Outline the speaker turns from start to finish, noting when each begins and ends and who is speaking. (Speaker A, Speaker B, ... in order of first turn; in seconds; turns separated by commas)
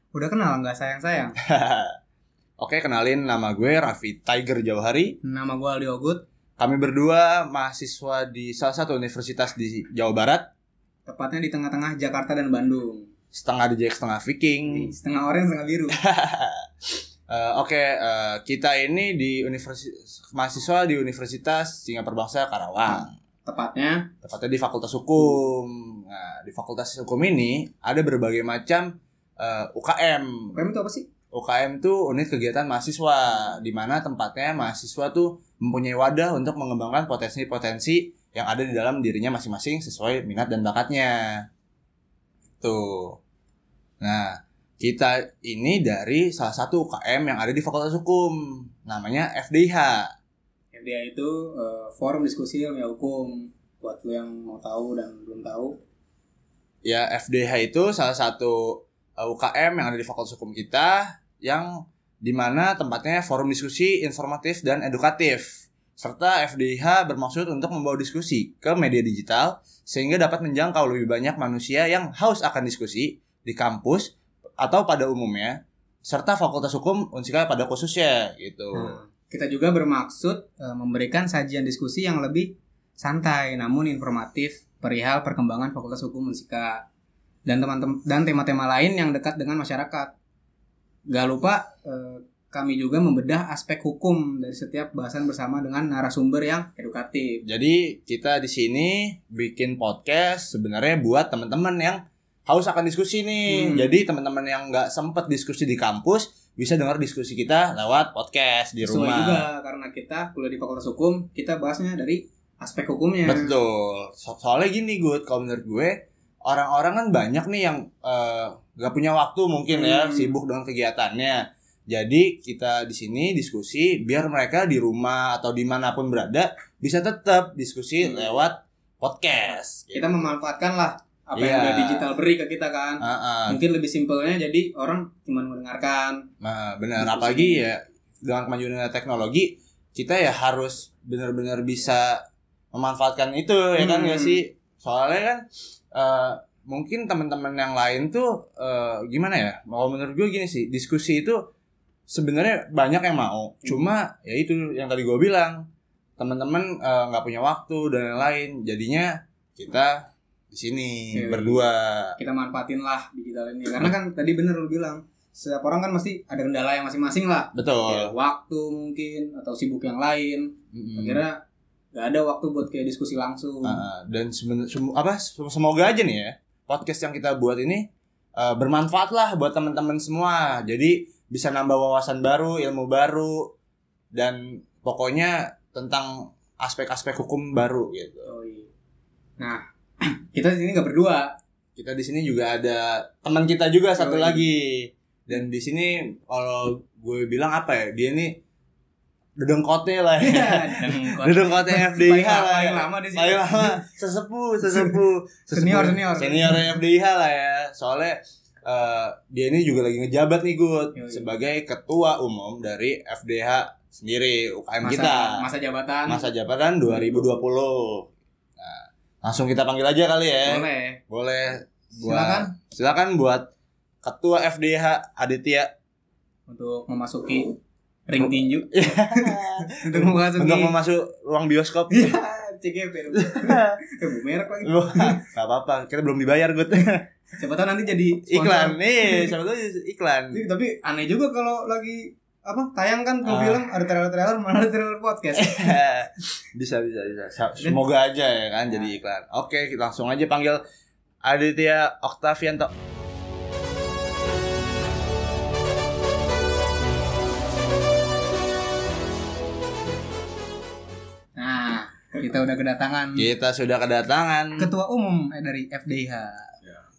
Speaker A: 0.1-1.4, Speaker B: 1.4-2.0, Speaker B: 2.6-5.2, Speaker A: 5.2-6.2, Speaker B: 6.6-10.5, Speaker A: 11.1-13.1, Speaker B: 13.3-14.9, Speaker A: 14.7-16.0, Speaker B: 15.9-16.7, Speaker B: 17.3-23.1, Speaker A: 23.4-24.1, Speaker B: 24.2-30.6, Speaker A: 30.5-31.1, Speaker B: 31.3-41.5, Speaker B: 42.6-43.2, Speaker B: 44.0-50.1, Speaker A: 50.7-55.8, Speaker B: 56.8-79.0, Speaker A: 78.7-86.8, Speaker A: 87.5-90.1, Speaker A: 91.1-97.4, Speaker B: 97.4-109.4, Speaker A: 103.5-103.9, Speaker A: 108.8-113.5, Speaker B: 113.2-130.3, Speaker A: 119.7-120.3, Speaker A: 129.9-136.3, Speaker B: 131.3-132.1, Speaker B: 133.0-133.6, Speaker B: 136.4-151.4, Speaker A: 137.0-137.6, Speaker A: 143.8-144.4, Speaker B: 152.1-155.7, Speaker B: 156.2-162.2, Speaker A: 161.1-161.6, Speaker A: 162.2-171.4, Speaker B: 167.5-168.1, Speaker B: 170.7-171.2, Speaker A: 171.9-173.8, Speaker B: 173.6-183.5, Speaker B: 184.1-188.3, Speaker A: 188.3-188.7, Speaker A: 189.4-191.3, Speaker B: 191.8-198.4, Speaker A: 194.0-194.4, Speaker B: 199.4-215.4, Speaker A: 200.2-203.8, Speaker A: 204.7-204.9, Speaker A: 205.5-206.7, Speaker A: 210.9-211.3, Speaker A: 214.8-216.2, Speaker B: 216.1-223.5, Speaker A: 220.4-221.0, Speaker A: 222.0-222.5, Speaker B: 224.0-225.7, Speaker A: 226.5-227.5, Speaker A: 228.1-230.7, Speaker B: 228.2-232.1, Speaker A: 231.9-235.2, Speaker B: 233.2-233.8, Speaker B: 234.6-237.1, Speaker A: 237.4-239.3, Speaker B: 238.3-240.4, Speaker A: 240.3-245.8, Speaker B: 243.2-243.6, Speaker B: 245.3-250.6, Speaker B: 251.2-252.7, Speaker A: 261.4-263.3, Speaker B: 263.1-264.7, Speaker A: 264.6-266.5